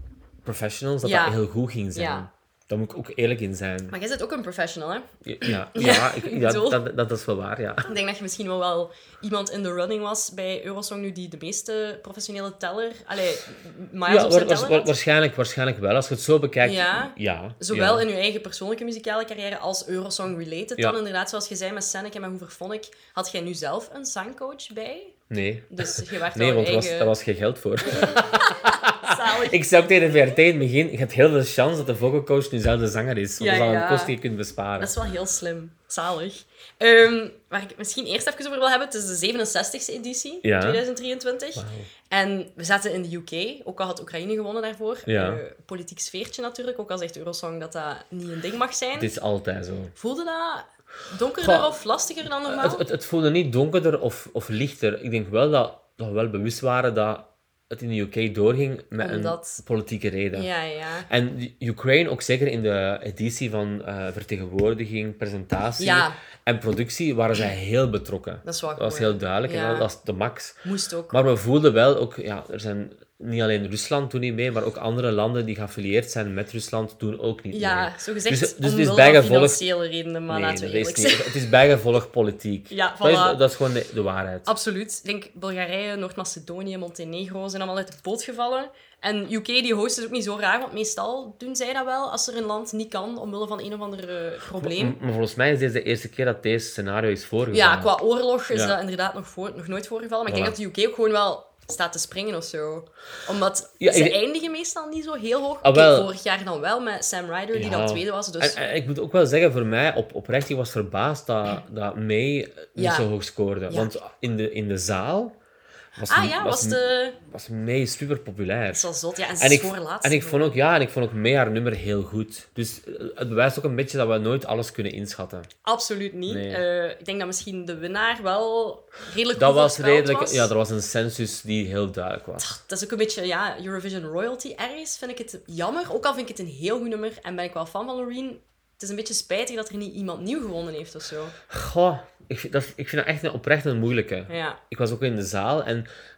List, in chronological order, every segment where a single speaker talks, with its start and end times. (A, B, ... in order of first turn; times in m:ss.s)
0:00.4-0:03.9 A
0:01.0-0:01.4 B
0:01.9-0:02.3 B
0:03.9-0:06.8 B
0:05.2-0:07.9 A
0:07.8-0:14.9 B
0:14.1-0:18.1 A
0:16.6-0:27.1 B
0:25.3-0:34.9 A
0:27.9-0:29.6 B
0:33.4-0:34.2 B
0:34.8-0:49.1 B
0:40.4-0:40.8 A
0:41.6-0:41.9 A
0:45.1-0:45.4 A
0:49.0-0:49.9 A
0:49.9-0:52.8 B
0:51.4-0:51.7 A
0:52.4-1:00.5 A
0:59.0-0:59.6 B
1:00.3-1:01.1 B
1:01.1-1:10.6 A
1:05.8-1:06.2 B
1:08.4-1:09.9 B
1:10.6-1:11.2 B
1:11.1-1:19.6 A
1:17.5-1:21.3 B
1:20.3-1:24.5 A
1:22.7-1:23.4 B
1:24.4-1:35.0 B
1:34.6-1:37.9 A
1:37.5-1:48.6 B
1:38.5-1:38.8 A
1:40.3-1:40.6 A
1:43.8-1:44.2 A
1:45.6-1:46.1 A
1:47.5-1:55.4 A
1:52.8-1:53.1 B
1:53.7-1:53.9 B
1:56.0-1:57.2 B
1:56.0-1:58.9 A
1:58.7-2:00.6 B
1:59.4-2:05.5 A
2:05.6-2:10.5 B
2:06.3-2:06.6 A
2:09.3-2:12.6 A
2:12.4-2:21.3 B
2:21.5-2:25.9 A
2:24.3-2:24.6 B